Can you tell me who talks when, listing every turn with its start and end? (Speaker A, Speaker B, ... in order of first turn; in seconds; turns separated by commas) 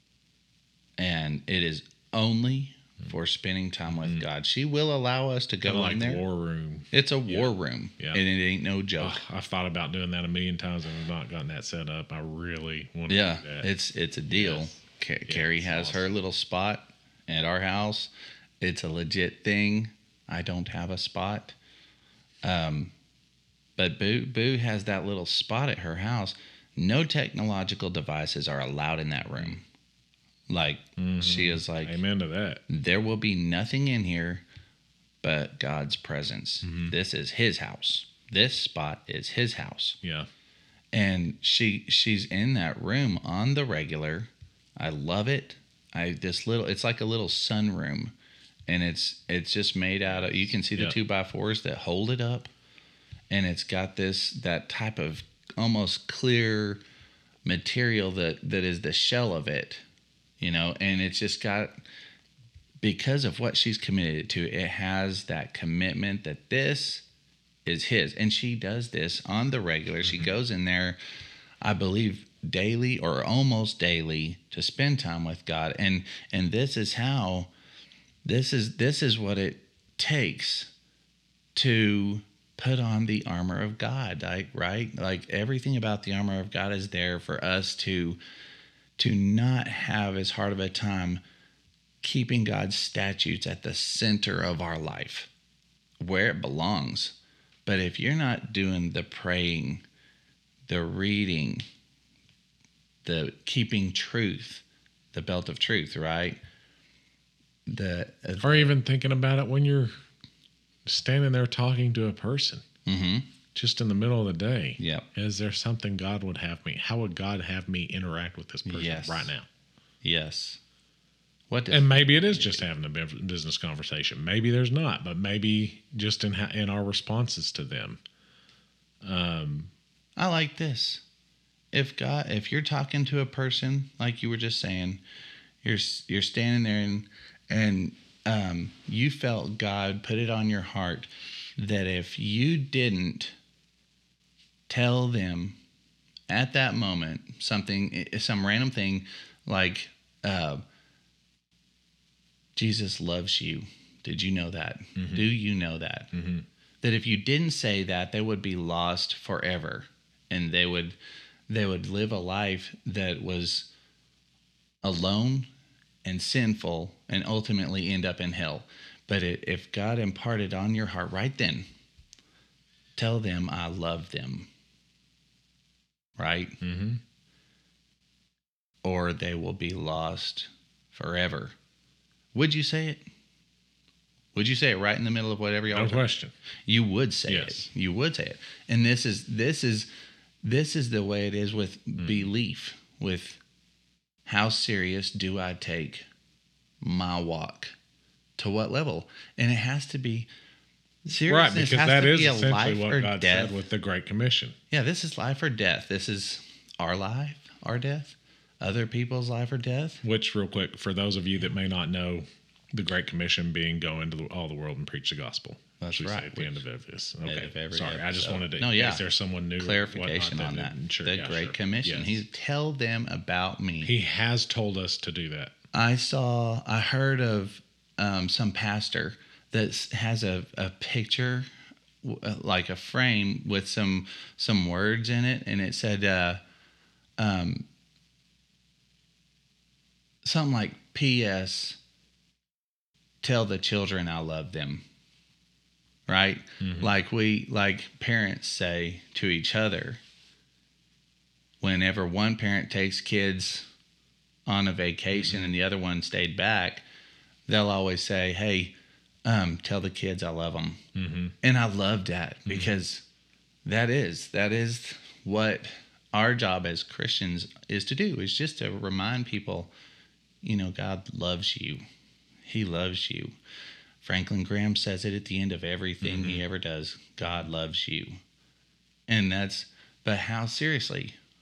Speaker A: 1.0-6.2, Speaker B: 4.0-4.2, Speaker B: 5.6-8.2, Speaker A: 6.9-9.2, Speaker B: 9.0-13.7, Speaker A: 13.1-21.6, Speaker B: 14.3-16.1, Speaker A: 22.4-22.9, Speaker A: 23.8-29.6, Speaker A: 30.5-32.0, Speaker B: 31.0-32.6, Speaker A: 32.7-34.4, Speaker A: 35.2-40.0, Speaker B: 36.6-36.9, Speaker B: 40.0-40.3, Speaker A: 40.9-48.1, Speaker A: 48.7-52.5, Speaker B: 50.0-51.0, Speaker A: 53.3-56.8, Speaker A: 57.5-59.8, Speaker A: 60.4-61.8, Speaker A: 62.8-67.0, Speaker A: 67.6-71.0, Speaker B: 70.0-70.3, Speaker A: 71.6-77.5, Speaker A: 78.2-80.7, Speaker A: 81.5-88.2, Speaker A: 89.0-91.2, Speaker A: 92.0-95.3, Speaker A: 96.0-97.1, Speaker A: 97.7-99.8, Speaker A: 100.7-101.6, Speaker A: 103.0-106.4, Speaker A: 107.7-108.7, Speaker B: 108.4-109.9, Speaker B: 110.9-112.6, Speaker A: 112.9-113.3, Speaker B: 113.5-119.5, Speaker A: 114.8-115.1, Speaker A: 118.6-119.3, Speaker A: 120.0-120.6, Speaker A: 121.5-122.7, Speaker B: 121.7-128.0, Speaker B: 129.0-129.7, Speaker A: 130.2-131.0, Speaker A: 131.7-135.0, Speaker A: 135.6-143.3, Speaker A: 144.7-145.6, Speaker A: 146.3-150.6, Speaker A: 152.6-156.1, Speaker B: 154.9-155.3, Speaker B: 156.1-156.4, Speaker A: 156.8-160.9, Speaker A: 161.5-163.7, Speaker A: 164.8-165.5, Speaker A: 166.0-171.7, Speaker A: 173.0-174.5, Speaker A: 176.2-176.6, Speaker B: 176.6-177.0, Speaker A: 178.8-181.5, Speaker A: 182.3-183.0, Speaker A: 184.3-186.1, Speaker B: 185.7-186.3, Speaker A: 186.7-189.9, Speaker B: 187.3-187.6, Speaker A: 190.4-193.4, Speaker B: 192.0-192.3, Speaker A: 194.3-196.1, Speaker A: 196.8-197.7, Speaker A: 198.4-200.3, Speaker A: 201.0-203.5, Speaker B: 201.2-204.6, Speaker A: 204.7-210.0, Speaker B: 210.0-222.2, Speaker A: 215.8-216.6, Speaker A: 217.2-219.0, Speaker A: 219.6-223.9, Speaker B: 223.8-225.5, Speaker A: 225.7-231.5, Speaker A: 232.0-236.4, Speaker A: 237.2-237.6, Speaker A: 240.2-241.8, Speaker A: 243.2-244.8, Speaker A: 246.1-250.0, Speaker B: 246.6-246.9, Speaker A: 251.6-253.7, Speaker A: 254.5-256.8, Speaker B: 255.1-255.5, Speaker A: 257.5-258.7, Speaker A: 259.2-260.8, Speaker B: 260.9-261.3, Speaker A: 261.4-263.0, Speaker B: 262.5-262.7, Speaker A: 263.6-269.7, Speaker A: 270.4-271.8, Speaker A: 272.4-273.4, Speaker A: 274.0-278.2, Speaker B: 276.0-276.4, Speaker A: 279.1-281.1